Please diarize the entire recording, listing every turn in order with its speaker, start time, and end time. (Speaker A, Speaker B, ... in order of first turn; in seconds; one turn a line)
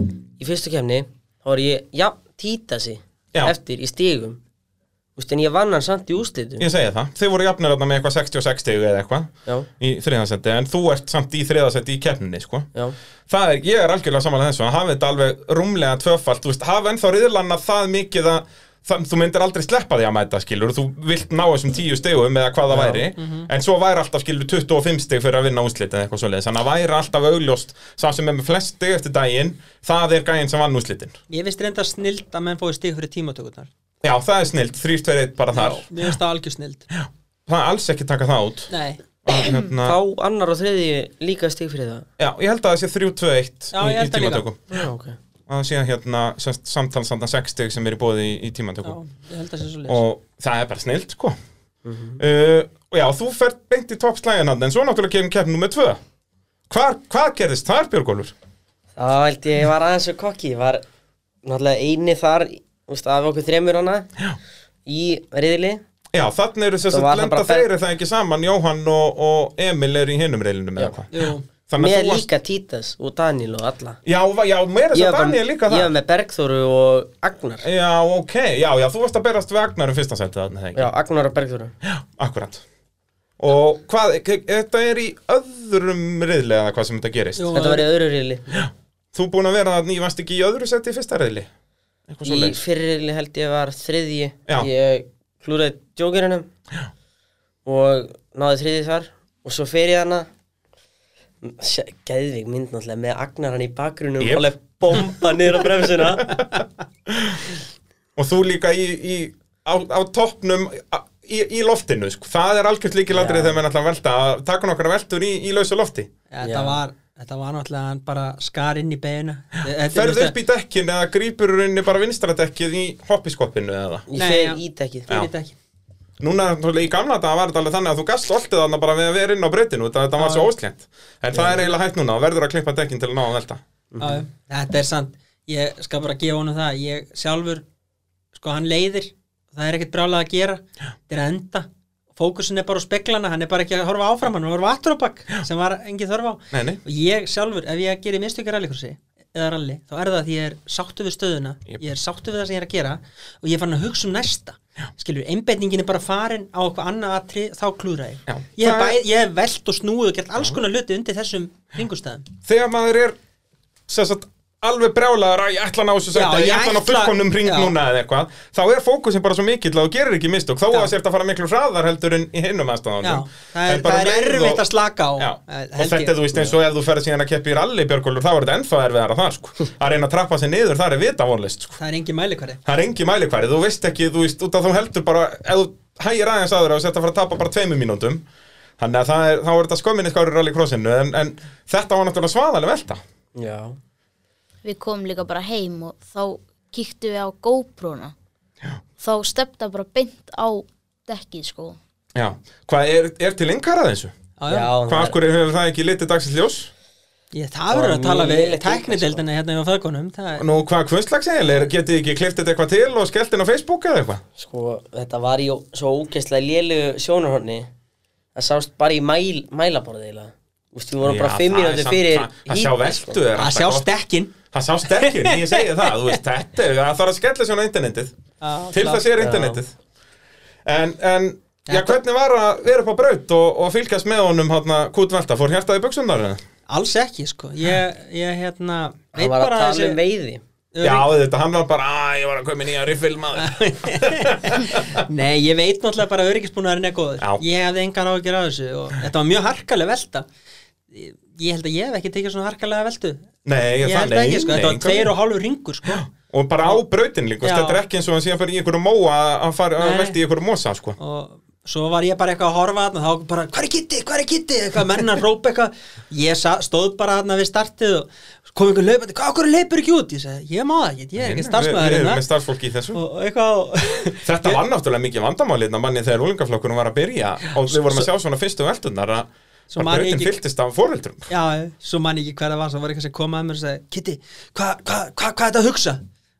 Speaker A: 0.4-4.4
Speaker A: 5.2-6.7
Speaker B: 6.6-12.7
Speaker B: 13.3-31.1
Speaker A: 22.7-23.0
Speaker C: 23.1-23.5
Speaker C: 31.3-33.7
Speaker B: 34.0-36.0
Speaker C: 35.5-36.9
Speaker B: 36.9-38.7
Speaker C: 38.7-39.0
Speaker B: 39.2-40.0
Speaker A: 39.3-42.0
Speaker B: 42.2-44.8
Speaker C: 43.7-44.4
Speaker A: 44.7-45.2
Speaker B: 45.5-49.0
Speaker C: 48.8-50.0
Speaker B: 49.9-51.4
Speaker A: 51.8-52.2
Speaker B: 52.2-56.0
Speaker B: 56.7-58.3
Speaker A: 59.0-60.8
Speaker A: 61.4-64.1
Speaker A: 64.8-65.8
Speaker B: 66.1-72.2
Speaker A: 66.9-67.7
Speaker C: 71.1-71.5
Speaker A: 71.8-74.0
Speaker B: 74.0-75.9
Speaker A: 74.9-77.7
Speaker B: 77.6-80.9
Speaker A: 80.7-81.7
Speaker B: 81.8-82.6
Speaker B: 83.4-87.5
Speaker C: 87.3-87.9
Speaker A: 87.5-88.6
Speaker B: 88.5-91.5
Speaker B: 92.1-92.6
Speaker A: 92.2-96.5
Speaker A: 97.6-100.3
Speaker A: 101.4-106.4
Speaker B: 104.2-105.1
Speaker B: 106.0-106.5
Speaker B: 107.1-107.5
Speaker B: 108.2-116.1
Speaker A: 113.1-113.6
Speaker C: 116.3-120.3
Speaker A: 116.4-116.8
Speaker B: 119.8-124.1
Speaker A: 124.1-125.1
Speaker C: 124.1-125.5
Speaker B: 126.2-133.6
Speaker C: 130.2-130.5
Speaker A: 131.3-131.6
Speaker A: 133.9-134.2
Speaker C: 134.0-137.6
Speaker C: 138.3-162.2
Speaker B: 146.5-146.8
Speaker B: 158.3-159.0
Speaker B: 162.4-163.2
Speaker B: 163.9-174.6
Speaker C: 166.1-167.7
Speaker C: 173.0-176.2
Speaker B: 175.2-181.8
Speaker C: 181.8-182.6
Speaker B: 182.6-188.2
Speaker B: 188.8-193.0
Speaker A: 193.3-193.8
Speaker D: 194.6-198.1
Speaker D: 199.0-201.8
Speaker B: 202.1-204.1
Speaker C: 204.4-204.7
Speaker A: 204.5-205.2
Speaker B: 204.8-206.7
Speaker C: 207.3-210.5
Speaker A: 207.7-209.2
Speaker B: 210.4-214.2
Speaker A: 214.4-217.7
Speaker A: 218.3-223.2
Speaker B: 221.0-223.9
Speaker C: 223.3-224.3
Speaker B: 224.5-228.1
Speaker C: 224.9-226.2
Speaker C: 228.4-229.1
Speaker B: 228.7-229.7
Speaker A: 229.2-229.6
Speaker B: 230.6-236.4
Speaker C: 231.7-232.0
Speaker C: 236.7-240.0
Speaker A: 239.1-240.4
Speaker C: 240.7-241.1
Speaker B: 240.8-245.0
Speaker C: 243.3-250.2
Speaker C: 250.9-253.3
Speaker B: 253.4-255.1
Speaker C: 253.8-256.1
Speaker B: 255.9-261.0
Speaker C: 257.4-257.8
Speaker C: 259.8-260.2
Speaker C: 261.0-272.2
Speaker B: 271.2-273.0
Speaker C: 272.9-274.6
Speaker B: 274.2-281.3
Speaker C: 277.6-278.1
Speaker C: 279.7-280.4
Speaker C: 281.3-286.0